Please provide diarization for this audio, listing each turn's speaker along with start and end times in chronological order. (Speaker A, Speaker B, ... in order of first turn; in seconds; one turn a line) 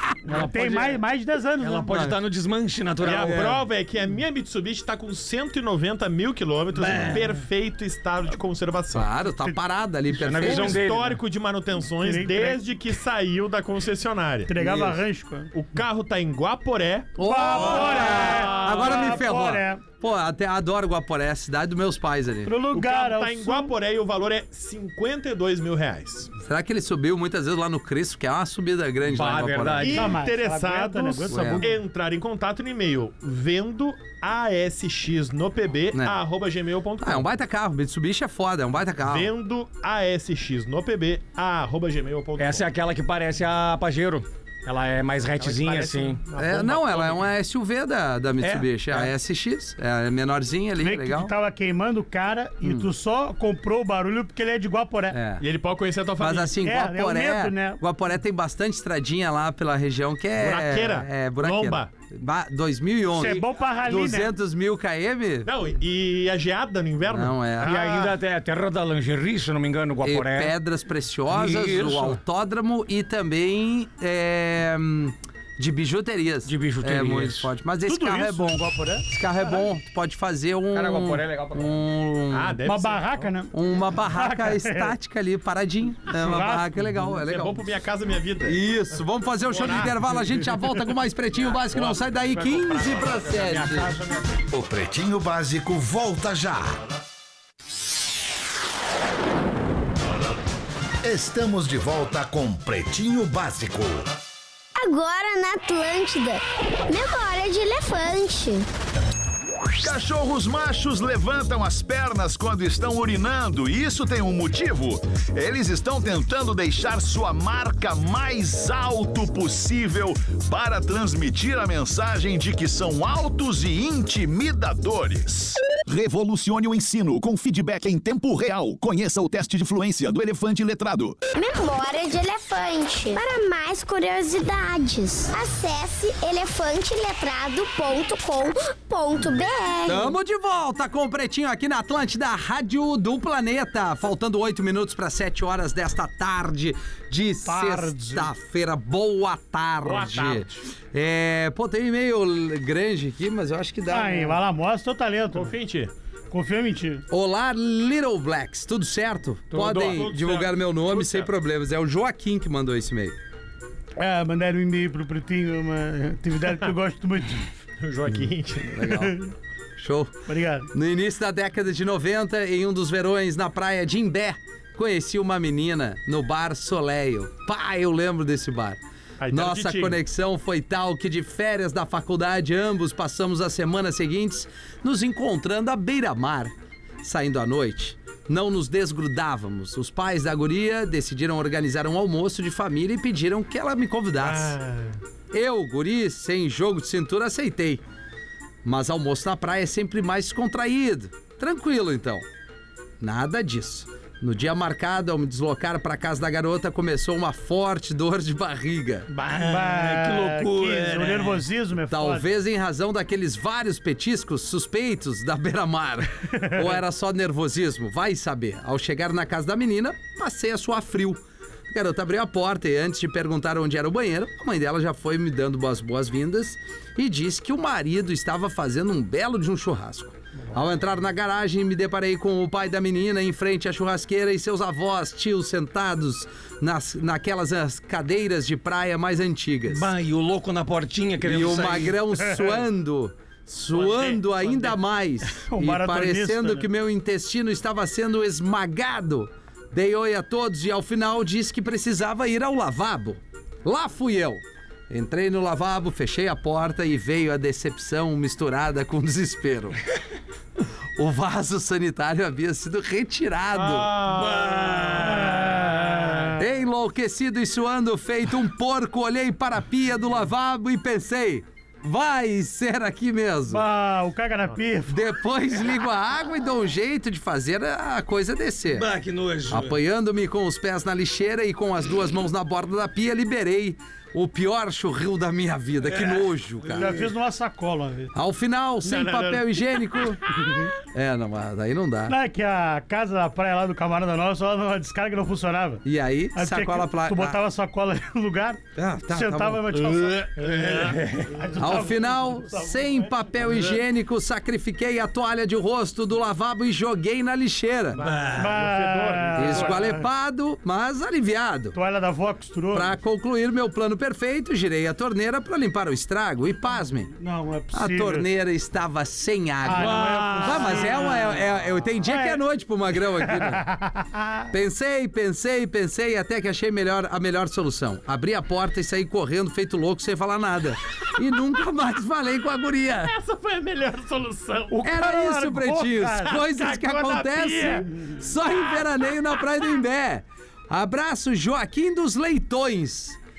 Speaker A: 0.3-1.0
Speaker B: 0.3-2.1
Speaker A: 1.6-3.6
Speaker C: 1.9-2.1
Speaker D: 3.0-9.1
Speaker A: 6.8-7.2
Speaker C: 8.9-10.8
Speaker A: 10.1-11.2
Speaker D: 10.4-14.5
Speaker B: 12.0-12.6
Speaker B: 14.5-15.5
Speaker C: 14.6-15.0
Speaker D: 15.5-19.2
Speaker C: 17.2-22.5
Speaker B: 17.2-19.8
Speaker B: 22.4-23.7
Speaker D: 22.7-26.3
Speaker C: 26.3-30.1
Speaker A: 29.1-30.1
Speaker B: 29.8-31.7
Speaker D: 29.8-37.3
Speaker C: 31.3-31.7
Speaker C: 35.9-36.2
Speaker C: 37.0-39.3
Speaker D: 39.0-42.6
Speaker A: 42.4-46.2
Speaker D: 45.4-47.2
Speaker C: 46.4-51.3
Speaker A: 48.4-49.0
Speaker B: 50.8-55.2
Speaker C: 52.6-52.9
Speaker C: 55.1-55.4
Speaker D: 55.4-56.6
Speaker C: 56.2-65.5
Speaker B: 56.6-57.8
Speaker D: 60.4-61.9
Speaker B: 63.1-64.3
Speaker D: 65.4-68.2
Speaker C: 67.1-67.7
Speaker A: 67.6-70.5
Speaker C: 70.0-82.6
Speaker A: 71.3-72.2
Speaker A: 76.5-77.5
Speaker B: 77.8-79.6
Speaker A: 80.7-81.7
Speaker D: 82.3-83.3
Speaker B: 82.7-83.5
Speaker C: 83.5-87.7
Speaker B: 84.1-84.9
Speaker B: 86.1-86.9
Speaker D: 87.1-90.1
Speaker C: 88.4-94.0
Speaker A: 91.6-94.4
Speaker D: 92.4-93.2
Speaker E: 94.5-96.8
Speaker E: 101.0-104.1
Speaker F: 104.8-108.7
Speaker E: 109.8-131.2
Speaker F: 131.3-140.2
Speaker C: 139.8-154.4
Speaker B: 147.4-148.3
Speaker D: 149.8-150.6
Speaker B: 153.9-155.5
Speaker D: 155.3-155.9
Speaker B: 156.3-157.0
Speaker C: 157.1-163.2
Speaker A: 159.5-160.1
Speaker D: 159.7-161.3
Speaker B: 164.0-167.5
Speaker D: 167.8-168.9
Speaker C: 168.7-169.2
Speaker B: 168.8-169.3
Speaker C: 169.8-170.1
Speaker B: 170.3-170.7
Speaker C: 170.7-194.6
Speaker D: 179.2-180.0
Speaker D: 194.2-195.0
Speaker C: 195.3-197.8
Speaker C: 198.6-202.2
Speaker C: 203.0-209.1
Speaker A: 209.1-211.5
Speaker B: 209.4-212.3
Speaker C: 211.9-239.9
Speaker A: 239.7-242.0
Speaker C: 241.2-259.8
Speaker D: 243.7-244.7
Speaker B: 245.2-246.7
Speaker C: 261.0-263.9
Speaker D: 263.5-265.2
Speaker A: 264.1-266.3
Speaker B: 265.4-265.8
Speaker C: 266.4-273.6
Speaker B: 273.5-275.0
Speaker C: 274.9-278.9
Speaker A: 278.7-279.8
Speaker C: 279.5-287.0
Speaker D: 285.9-286.2
Speaker B: 286.7-288.1
Speaker C: 288.1-290.2
Speaker D: 288.8-289.6
Speaker C: 290.9-292.1
Speaker B: 292.1-295.8
Speaker C: 295.8-297.4
Speaker B: 296.3-300.5
Speaker C: 298.7-300.2
Speaker A: 300.4-301.6
Speaker B: 301.3-303.4
Speaker C: 301.6-308.0
Speaker D: 307.9-309.9
Speaker A: 308.0-308.6
Speaker B: 308.3-310.0
Speaker C: 309.4-311.8
Speaker B: 311.7-312.9
Speaker C: 312.7-317.1
Speaker B: 317.1-318.3
Speaker C: 317.7-323.8
Speaker B: 319.6-321.4
Speaker A: 319.9-320.9
Speaker B: 322.0-322.4
Speaker B: 323.2-324.4
Speaker C: 324.5-333.1
Speaker D: 333.1-334.8
Speaker B: 334.7-336.4
Speaker C: 334.8-343.2
Speaker D: 336.2-338.1